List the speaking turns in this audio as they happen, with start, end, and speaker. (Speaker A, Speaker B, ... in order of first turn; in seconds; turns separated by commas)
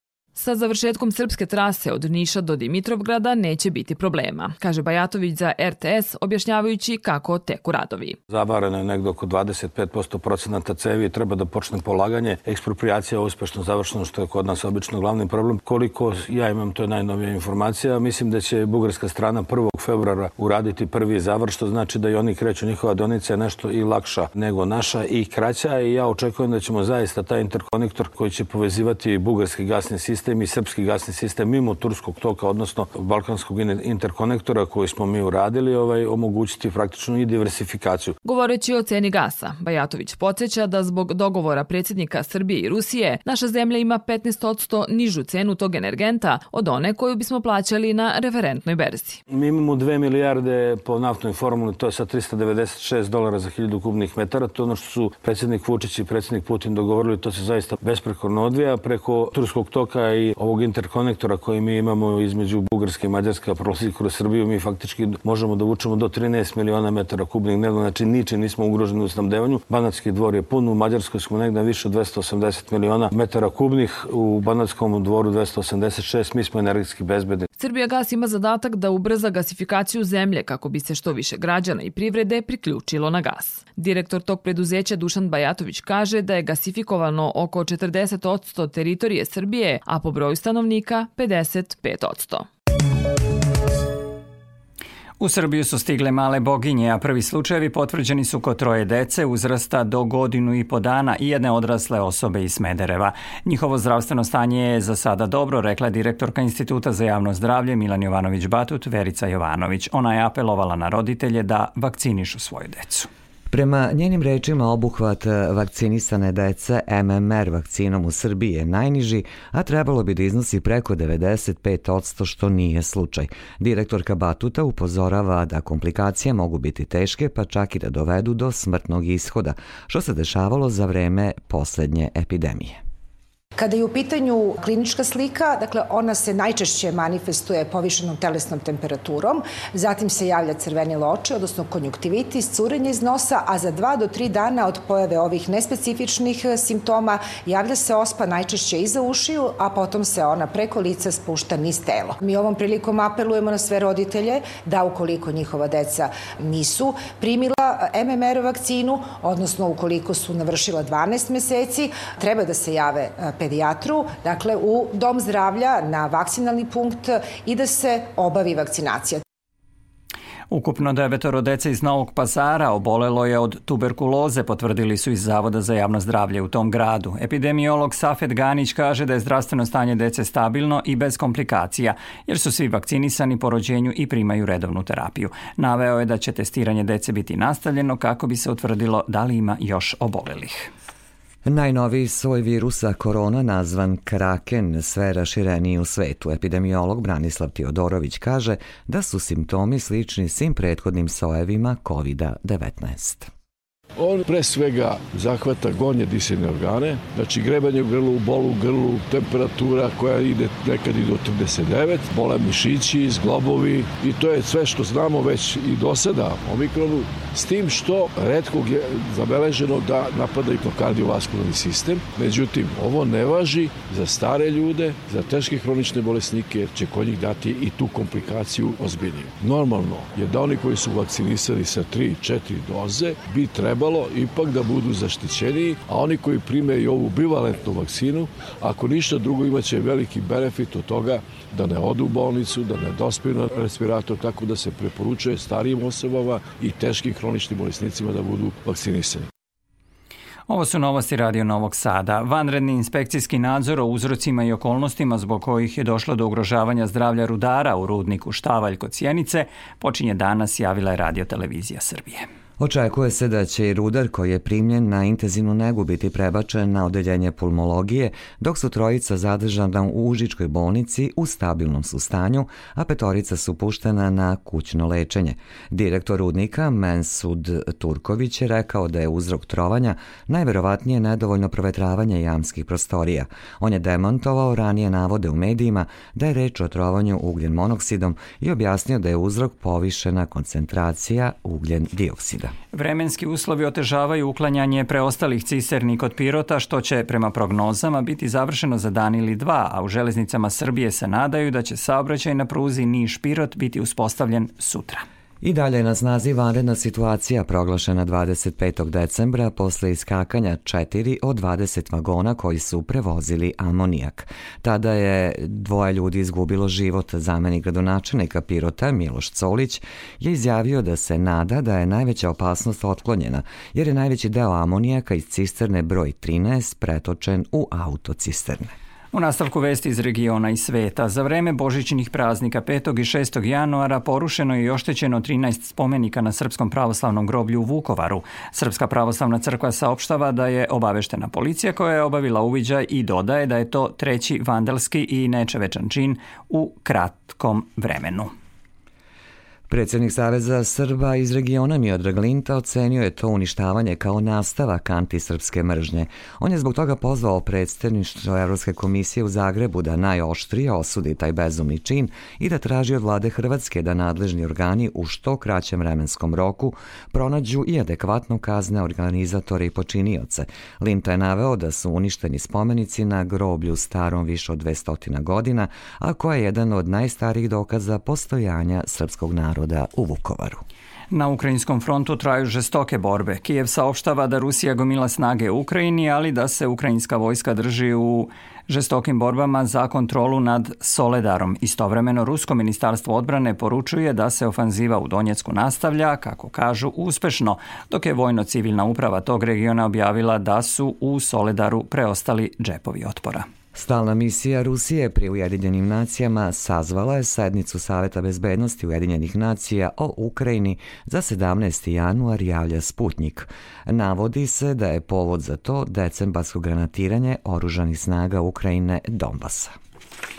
Speaker A: 0.4-8.2, Speaker B: 8.3-38.1, Speaker A: 38.2-49.2, Speaker B: 49.3-77.5, Speaker A: 77.6-92.5, Speaker C: 95.2-113.1, Speaker D: 113.5-132.8, Speaker E: 133.6-169.2, Speaker C: 170.5-190.7, Speaker D: 191.4-203.3, Speaker F: 204.0-249.3, Speaker C: 250.5-262.2, Speaker D: 262.6-292.5, Speaker C: 292.7-305.0, Speaker D: 305.4-328.7, Speaker C: 329.1-348.3, Speaker D: 349.7-380.6, Speaker C: 381.1-403.4, Speaker D: 403.7-419.7